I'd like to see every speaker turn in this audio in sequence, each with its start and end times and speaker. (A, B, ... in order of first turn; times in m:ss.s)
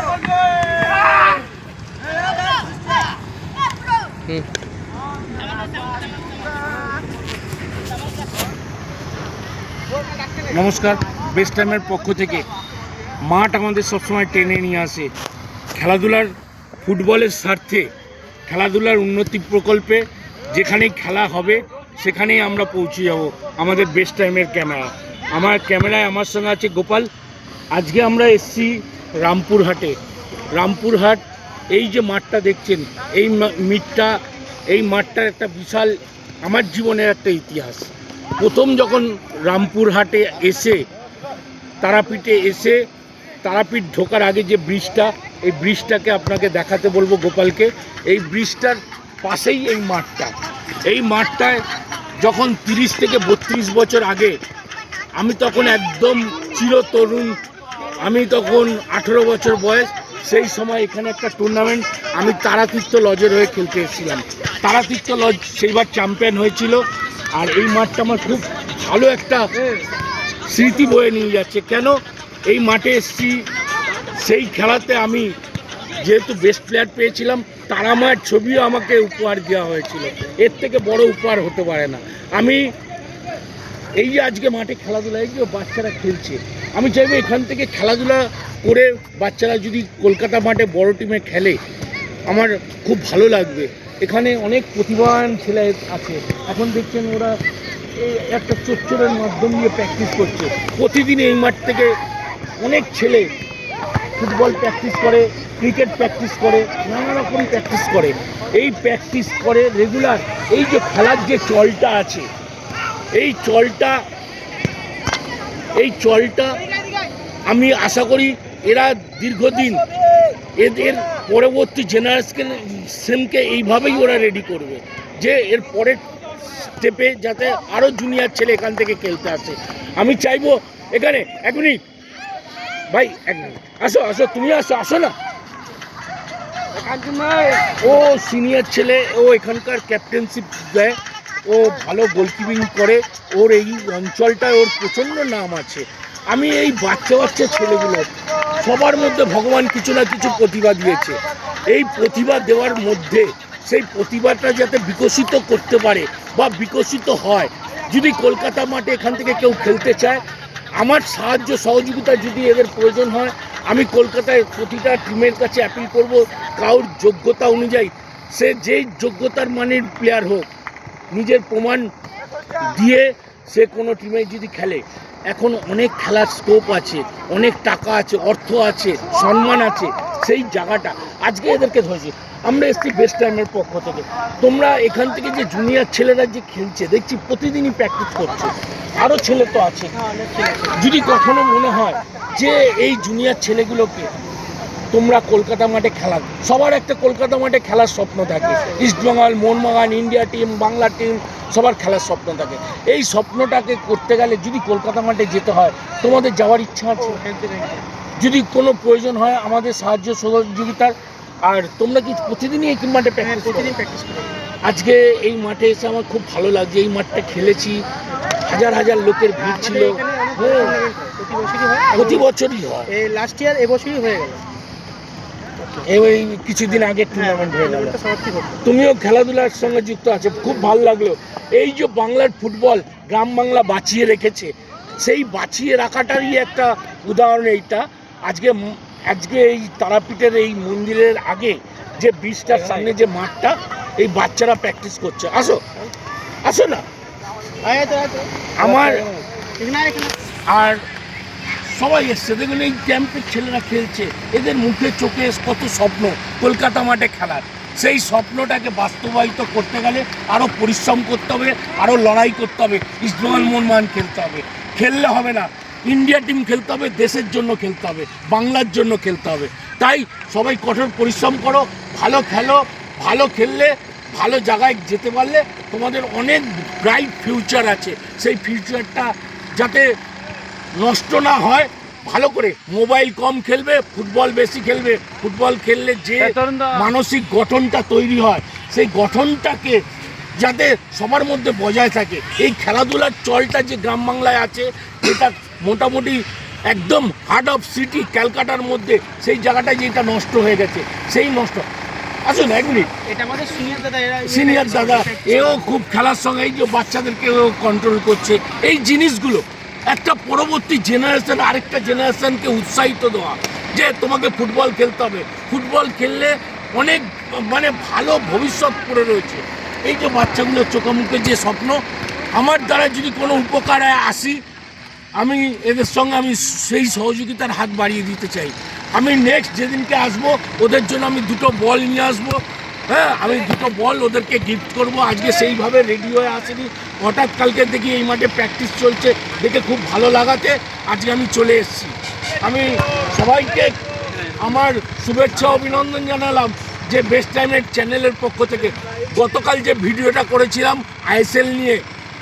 0:10.5-0:12.5 A
0:13.2-0:15.1 A
0:15.7-0:17.9 A
0:18.5-0:27.1 A
0:27.7-0:30.0 A
0:30.6-0:40.8 A
0:41.8-0:42.8 A
0:43.4-0:50.3 A
0:50.9-0:51.6 A
0:52.2-0:54.4 A
0:55.2-0:57.4 A
0:58.0-1:09.5 A
1:10.5-1:13.5 A
1:14.1-1:15.3 A
1:16.0-1:22.7 A
1:24.0-1:31.6 A
1:32.3-1:37.4 A
1:38.0-1:41.9 A
1:42.6-1:43.3 A
1:44.2-1:52.3 A
1:53.1-1:54.0 A
1:55.8-1:56.6 A
1:57.5-1:59.8 A
2:00.6-2:11.8 A
2:12.9-2:15.1 A
2:16.8-2:17.8 B
2:17.8-2:40.2 A
2:40.8-2:50.5 A
2:51.1-2:51.9 A
2:52.6-3:09.9 A
3:09.9-3:10.8 B
3:10.7-3:14.1 A
3:14.9-3:27.2 A
3:27.0-3:27.9 B
3:28.2-3:33.8 A
3:33.2-3:34.4 B
3:34.6-3:37.8 A
3:38.4-3:40.7 A
3:39.4-3:42.2 B
3:41.9-3:42.9 A
3:42.9-3:44.4 B
3:45.8-3:48.0 A
3:47.1-3:48.6 B
3:48.6-4:05.6 A
4:02.5-4:02.9 B
4:06.4-4:06.8 A
4:07.6-4:10.2 B
4:08.6-4:09.1 A
4:10.5-4:10.8 A
4:11.6-4:39.9 A
4:40.8-4:49.8 A
4:50.4-5:01.7 A
5:02.3-5:02.9 A
5:03.1-5:05.7 B
5:04.2-5:21.8 A
5:22.4-5:24.4 A
5:25.2-5:51.8 A